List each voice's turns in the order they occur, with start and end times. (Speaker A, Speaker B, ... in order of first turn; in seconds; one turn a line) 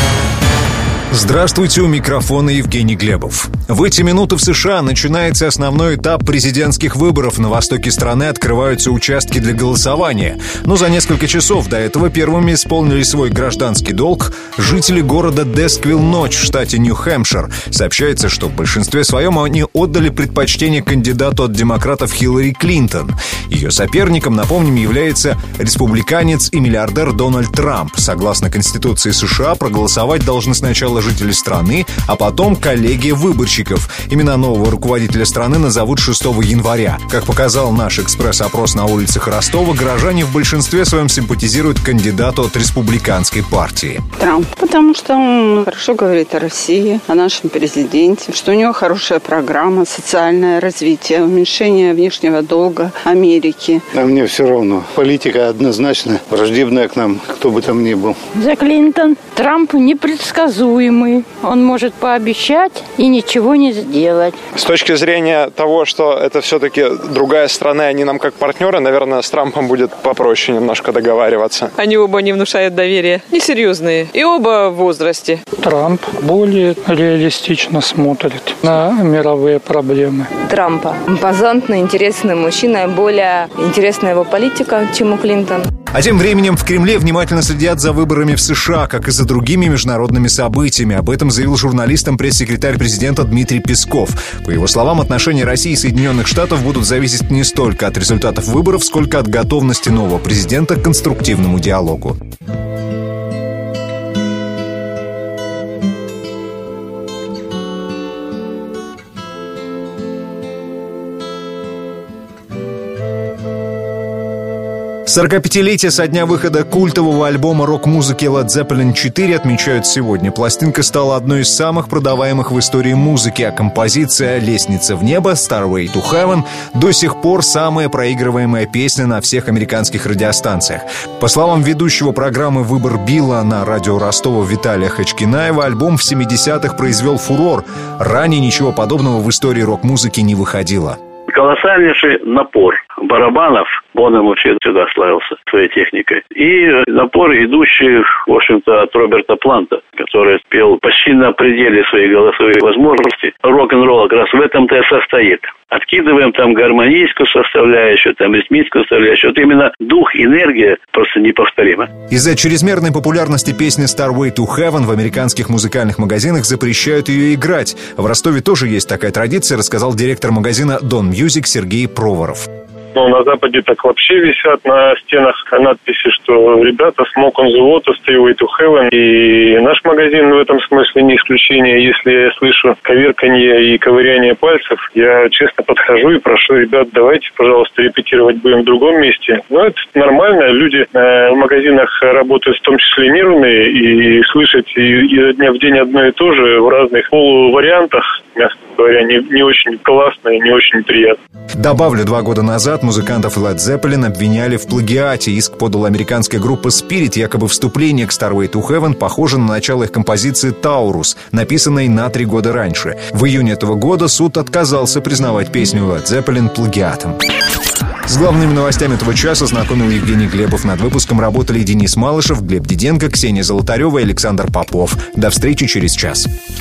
Speaker A: 1.1-44.0
Speaker B: 44.2-53.9
Speaker C: 53.9-58.1
Speaker D: 58.4-64.3
Speaker E: 64.5-71.7
Speaker F: 71.8-75.4
Speaker G: 75.5-80.3
Speaker H: 80.4-85.7
Speaker A: 85.9-102.2
Speaker A: 115.0-141.0
Speaker I: 141.3-161.9
Speaker A: 162.1-172.4
Speaker J: 172.9-201.2
Speaker A: 201.6-217.2
Speaker A: 218.1-226.3